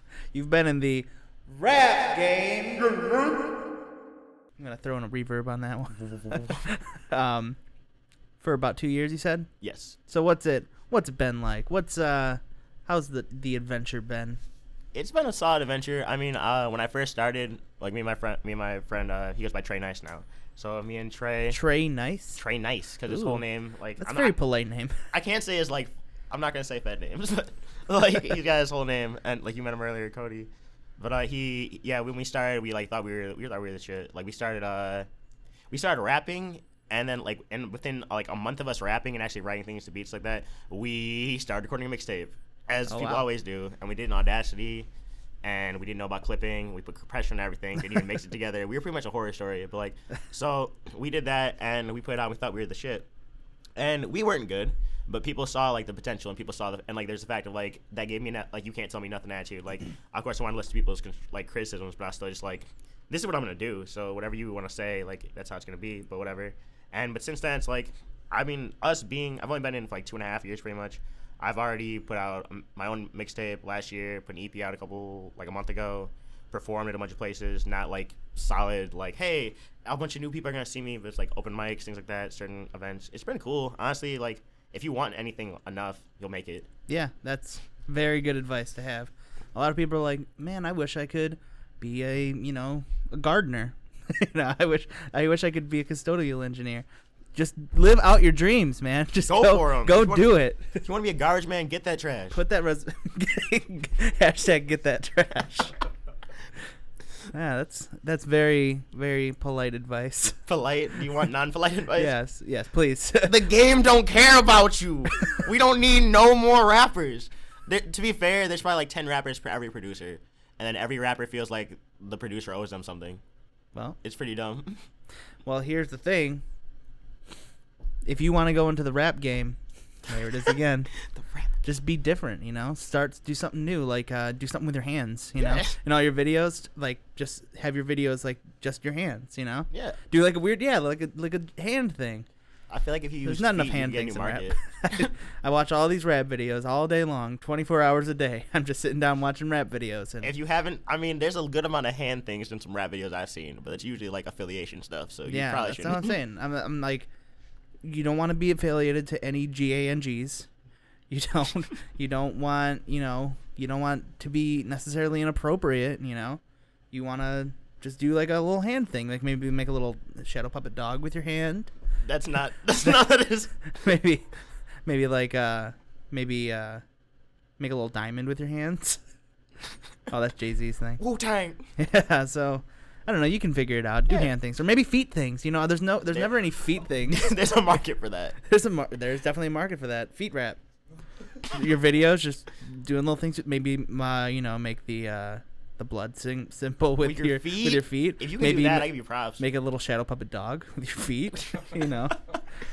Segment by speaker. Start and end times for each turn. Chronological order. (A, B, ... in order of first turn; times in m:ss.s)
0:00.3-0:03.4 A
0:04.6-0:07.6 A
0:06.1-0:06.6 B
0:08.4-0:09.5 A
0:09.6-0:10.0 B
0:10.1-0:14.4 A
0:14.9-0:21.6 B
0:21.5-0:22.4 A
0:22.4-0:24.4 B
0:23.1-0:23.4 A
0:24.0-0:25.0 A
0:25.1-0:35.1 B
0:35.7-0:44.9 B
0:42.9-0:43.3 A
0:45.4-0:53.1 B
0:53.8-1:26.7 B
1:26.9-1:40.8 A
1:39.3-1:42.4 B
1:42.3-1:45.7 A
1:47.3-1:50.4 A
1:50.5-1:52.1 B
1:52.0-1:53.4 A
1:53.3-2:03.2 B
2:04.0-2:04.8 B
2:05.4-2:06.4 A
2:08.0-2:10.9 A
2:11.2-2:11.5 B
2:11.6-2:22.3 A
2:15.4-2:15.8 B
2:19.7-2:20.0 B
2:22.7-2:25.1 B
2:23.2-2:30.3 A
2:30.2-2:36.1 B
2:35.3-2:37.1 A
2:37.8-2:40.5 A
2:41.1-2:46.4 A
2:46.9-2:51.7 A
2:52.0-2:53.5 B
2:53.7-2:54.3 A
2:54.9-2:56.8 A
2:57.6-2:59.0 A
3:00.1-3:01.0 A
3:01.0-3:01.6 B
3:01.8-3:07.3 A
3:07.1-3:08.4 B
3:08.4-3:10.6 A
3:11.4-3:22.2 A
3:17.0-3:19.4 B